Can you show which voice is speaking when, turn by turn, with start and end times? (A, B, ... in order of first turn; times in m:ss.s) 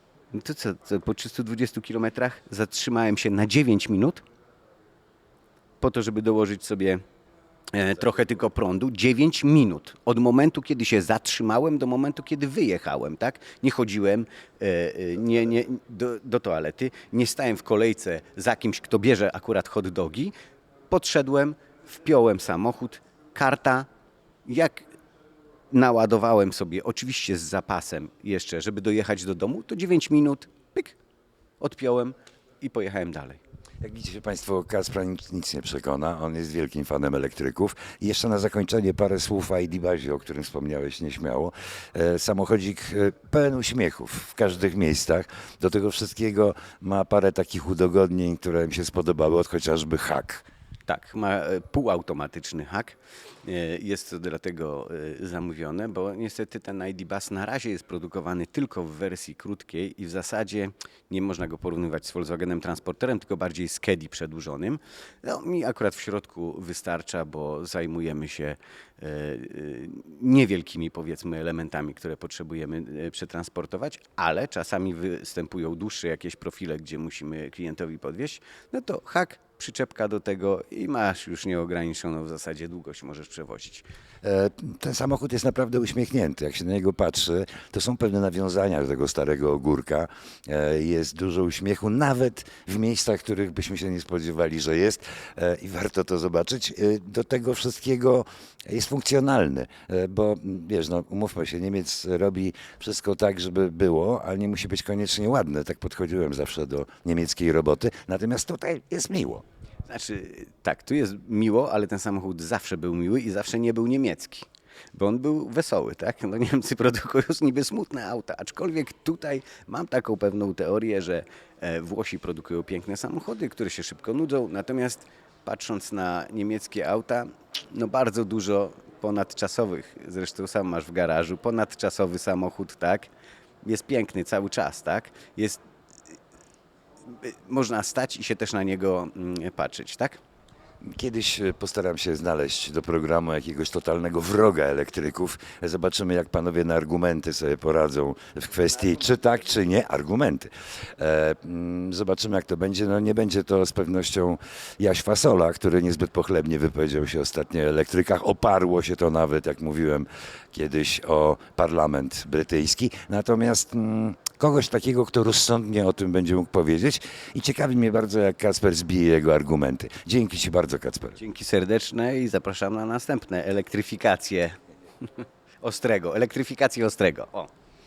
0:00.3-0:04.2 A
0:05.8-0:07.0 A
0:07.7-0:20.3 A
0:20.9-0:23.9 A
0:24.4-0:24.8 A
0:25.7-0:31.0 A
0:31.6-0:33.4 A
0:33.8-0:50.4 B
0:50.9-1:23.8 A
1:24.2-1:49.4 B
1:49.9-2:13.1 A
2:13.6-2:15.6 A
2:17.1-2:20.2 A
2:20.8-2:51.2 B
2:51.2-2:57.5 A